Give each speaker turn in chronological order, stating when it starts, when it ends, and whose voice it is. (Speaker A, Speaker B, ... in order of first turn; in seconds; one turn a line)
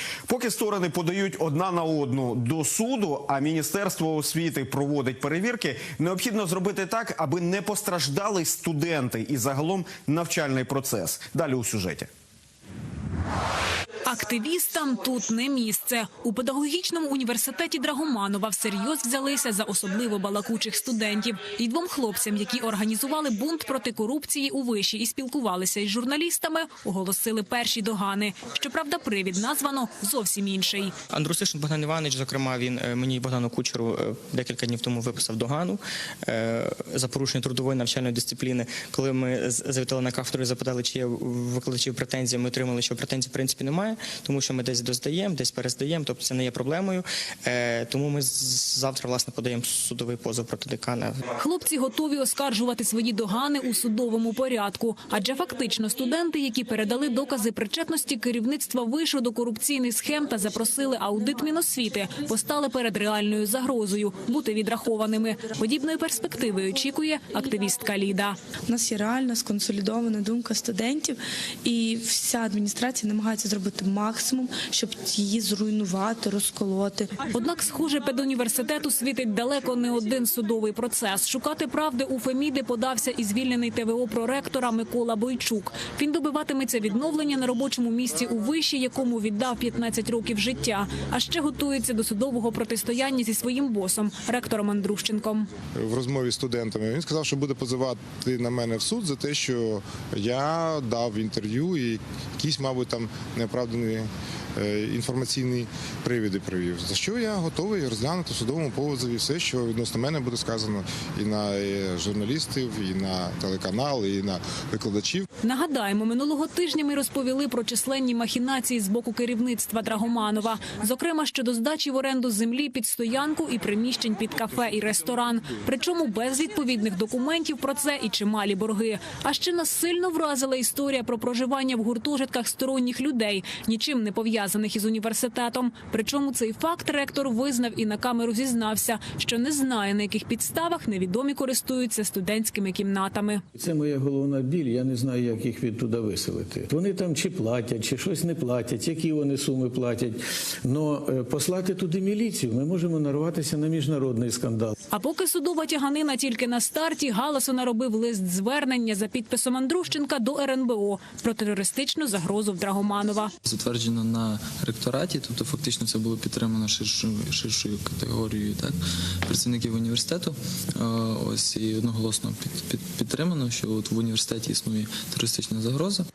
Speaker A: 0.3-12.1
Speaker B: 14.1-31.0
Speaker C: 31.1-51.2
Speaker B: 51.4-68.4
Speaker D: 68.7-77.2
Speaker B: 77.3-95.5
Speaker E: 95.8-115.3
Speaker B: 115.4-143.4
Speaker F: 143.6-154.8
Speaker B: 154.9-163.3
Speaker G: 163.6-168.7
Speaker G: 169.4-170.3
Speaker G: 170.8-176.0